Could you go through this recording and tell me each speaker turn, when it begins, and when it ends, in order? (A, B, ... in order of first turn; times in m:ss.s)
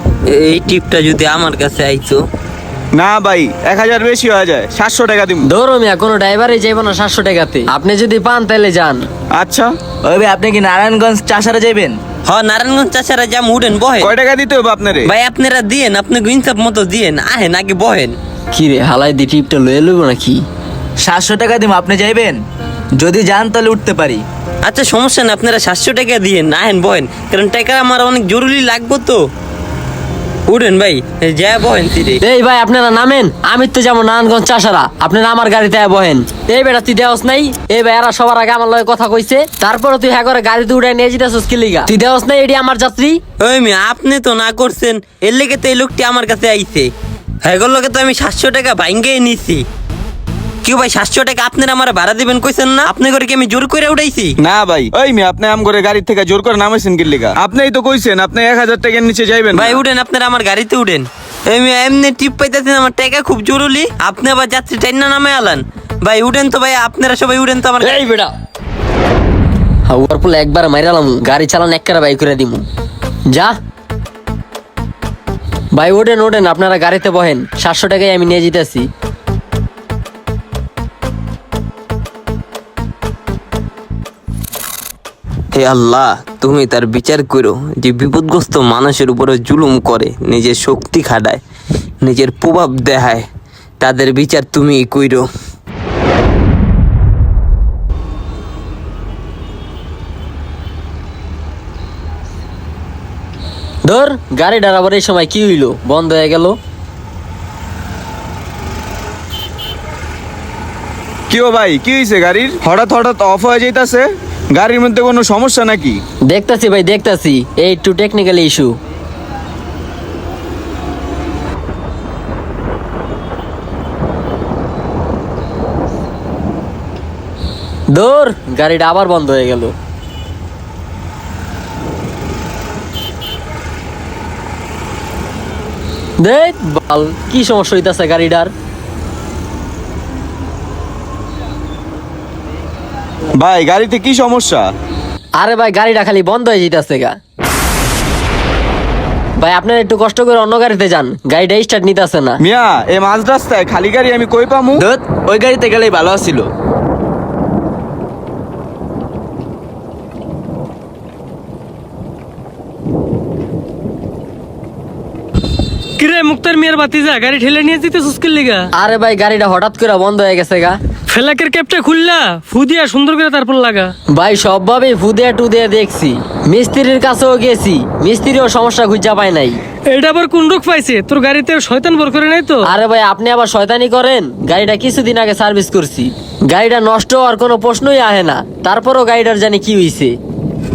0:00.3-0:02.2 A
0:03.0-0:05.5 B
0:05.5-0:09.1 C
0:09.4-0:09.7 B
0:10.0-0:12.0 D
0:12.3-0:14.1 A
0:14.0-0:15.1 B
0:15.1-0:18.2 A
0:18.5-0:20.4 C
0:21.0-0:22.4 D
0:23.0-0:24.2 D
0:24.6-0:29.2 A
0:30.5-0:32.2 A
0:32.2-0:43.2 C
0:43.4-0:46.9 A
0:47.4-0:49.7 A
0:50.6-0:54.4 A
0:54.4-0:59.8 B
0:59.5-1:08.0 A
1:08.0-1:08.3 C
1:09.9-1:12.7 C
1:15.8-1:18.9 C
1:25.5-1:31.4 A
1:32.0-1:33.3 A
1:33.8-1:35.3 A
1:43.9-1:46.6 C
1:51.3-1:56.0 B
1:56.3-1:58.8 C
2:07.9-2:09.7 C
2:16.2-2:18.5 C
2:23.4-2:24.7 B
2:25.4-2:27.2 C
2:29.4-2:32.4 C
2:32.4-2:34.8 B
2:34.8-2:36.5 D
2:46.0-2:48.7 E
2:48.8-2:50.8 C
2:51.1-2:53.9 E
2:54.2-2:59.6 C
2:59.9-3:02.6 E
3:02.7-3:10.2 C